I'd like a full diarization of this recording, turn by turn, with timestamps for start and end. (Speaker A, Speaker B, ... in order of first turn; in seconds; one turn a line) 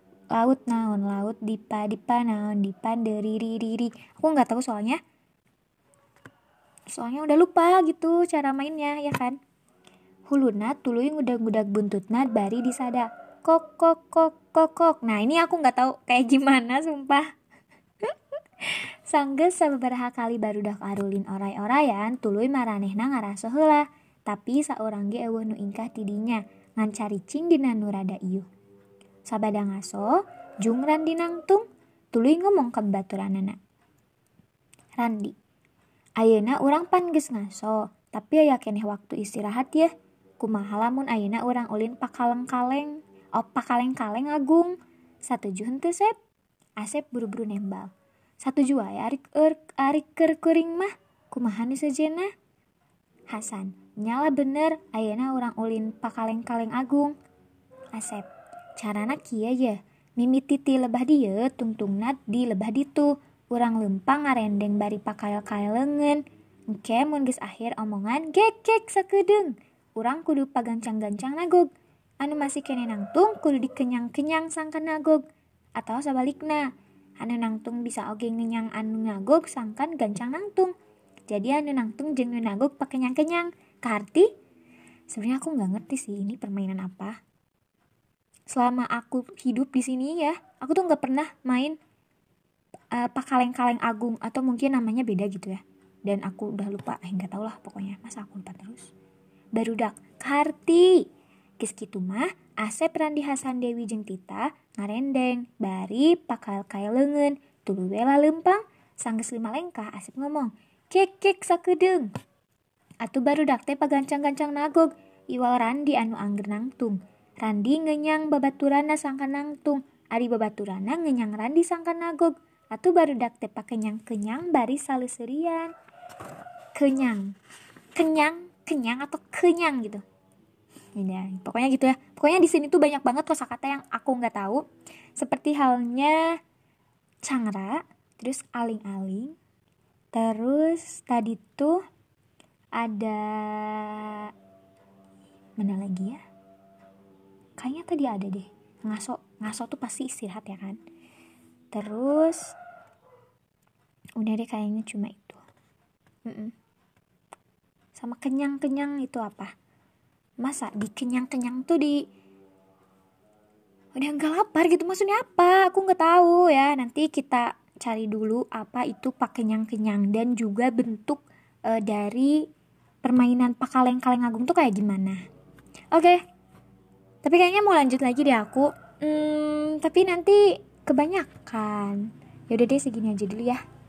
Speaker A: 0.3-5.0
Speaker A: 6.9-9.4
Speaker A: 10.3-17.3
Speaker A: 18.0-28.4
Speaker A: 29.3-33.6
Speaker A: 35.0-35.3
Speaker A: 36.2-46.1
Speaker A: 46.8-47.9
Speaker A: 48.4-52.3
Speaker A: 53.3-57.1
Speaker A: 58.0-71.7
Speaker A: 72.2-75.2
Speaker A: 75.8-76.7
Speaker A: 77.2-80.7
Speaker A: 81.3-84.3
Speaker A: 85.1-87.2
Speaker A: 88.5-91.8
Speaker A: 92.9-98.9
Speaker A: 99.6-101.0
Speaker A: 101.6-112.1
Speaker A: 113.0-125.7
Speaker A: 126.8-127.3
Speaker A: 128.0-130.0
Speaker A: 130.9-134.6
Speaker A: 135.2-136.3
Speaker A: 137.2-139.3
Speaker A: 140.1-141.8
Speaker A: 142.8-144.3
Speaker A: 145.6-146.2
Speaker A: 147.6-150.8
Speaker A: 151.7-152.4
Speaker A: 154.2-155.4
Speaker A: 156.3-156.5
Speaker A: 158.0-159.5
Speaker A: 160.4-162.0
Speaker A: 164.0-172.4
Speaker A: 173.0-175.2
Speaker A: 175.9-176.2
Speaker A: 177.2-183.6